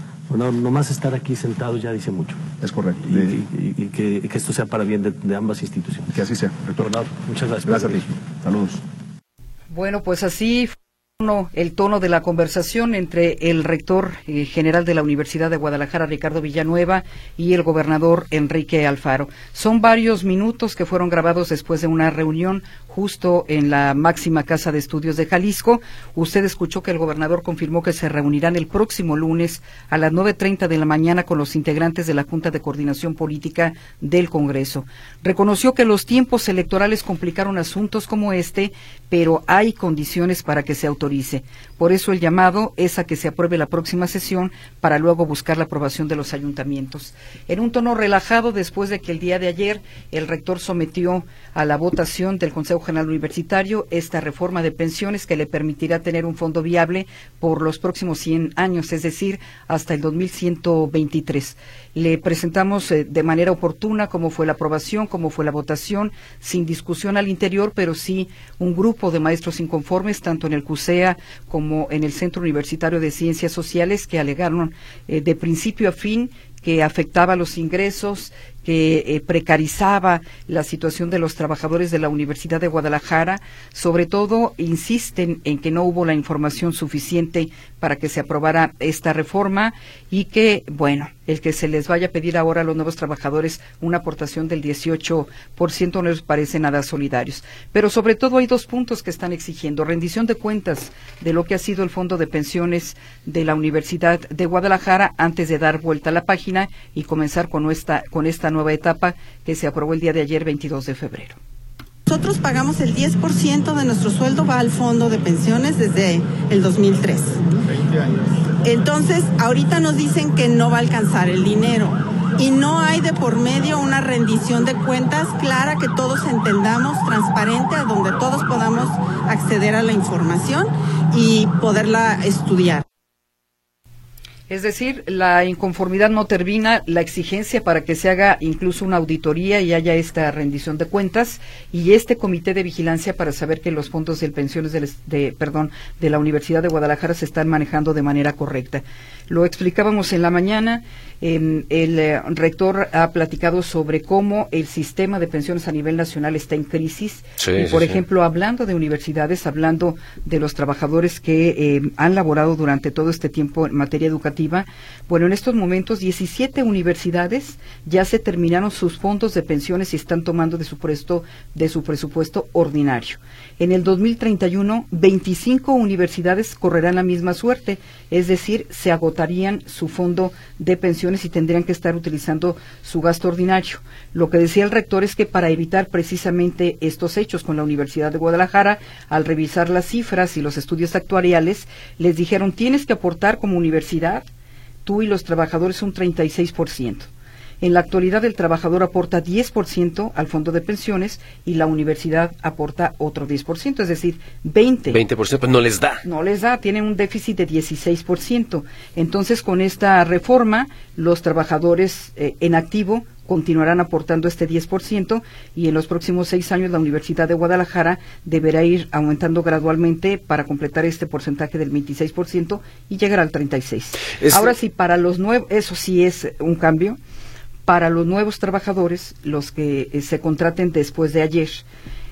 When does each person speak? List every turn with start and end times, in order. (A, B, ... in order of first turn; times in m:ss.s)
0:00.3-0:02.4 A
0:02.6-0:03.4 B
0:03.0-0:06.1 A
0:06.1-0:07.1 B
0:06.8-0:08.1 A
0:07.6-0:08.8 B
0:09.7-1:51.4 C
1:52.1-1:57.4 D
1:58.6-2:12.8 D
2:14.5-3:14.3 C
2:37.4-2:38.0 E
3:14.8-3:17.1 C
3:17.6-3:25.0 C
3:24.9-3:26.0 E
3:26.0-3:47.0 C
3:44.2-3:44.5 E
3:47.7-3:51.7 C